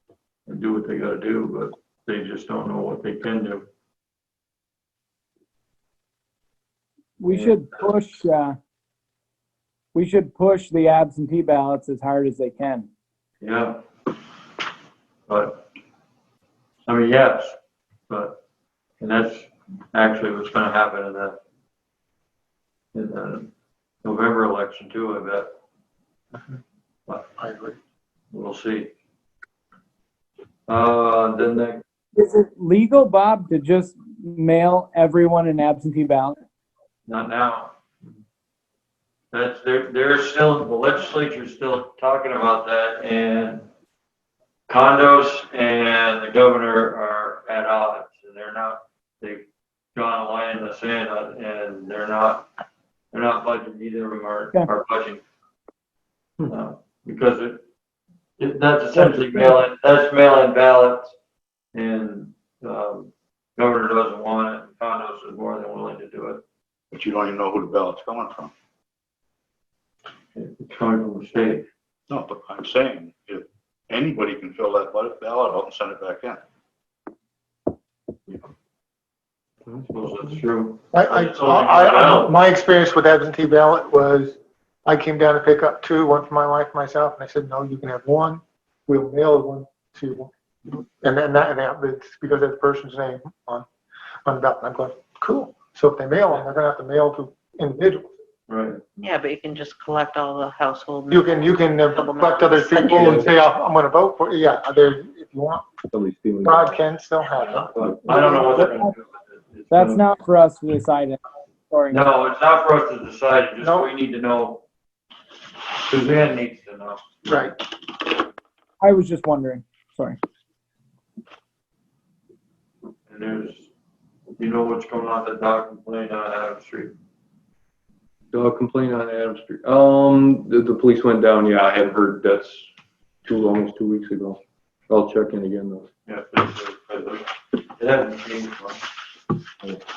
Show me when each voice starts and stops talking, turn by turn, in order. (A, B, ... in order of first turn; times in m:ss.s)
0:00.5-0:03.7 A
0:07.2-0:08.6 B
0:07.3-0:07.6 A
0:09.9-0:12.9 B
0:13.4-0:13.8 A
0:15.3-0:15.6 A
0:16.9-0:17.6 A
0:18.1-0:18.4 A
0:19.0-0:21.4 A
0:22.9-0:23.5 A
0:24.0-0:25.5 A
0:27.4-0:27.8 C
0:28.3-0:28.9 A
0:30.7-0:31.8 A
0:32.2-0:36.4 B
0:37.1-0:37.7 A
0:39.3-0:43.6 A
0:44.7-0:52.5 A
0:53.1-0:55.2 A
0:56.5-0:57.6 A
0:58.4-1:01.1 A
0:59.0-0:59.6 B
1:01.7-1:06.4 A
1:06.9-1:08.5 D
1:10.4-1:11.7 A
1:12.1-1:16.4 D
1:19.8-1:22.4 A
1:20.9-1:33.7 C
1:34.2-1:38.1 C
1:38.5-1:38.8 A
1:39.0-1:43.2 E
1:41.1-1:45.6 C
1:42.9-1:43.3 F
1:45.9-1:46.8 F
1:46.4-1:48.5 C
1:47.4-1:50.0 A
1:47.7-1:48.3 F
1:48.1-1:48.9 B
1:49.7-1:52.1 B
1:51.9-1:54.6 A
1:53.6-1:53.9 C
1:55.8-1:57.5 A
1:57.3-1:57.6 C
1:58.8-2:00.2 B
2:03.1-2:03.7 A
2:04.4-2:06.9 A
2:08.3-2:12.7 F
2:13.2-2:15.9 F
2:16.1-2:17.3 A
2:17.8-2:18.8 A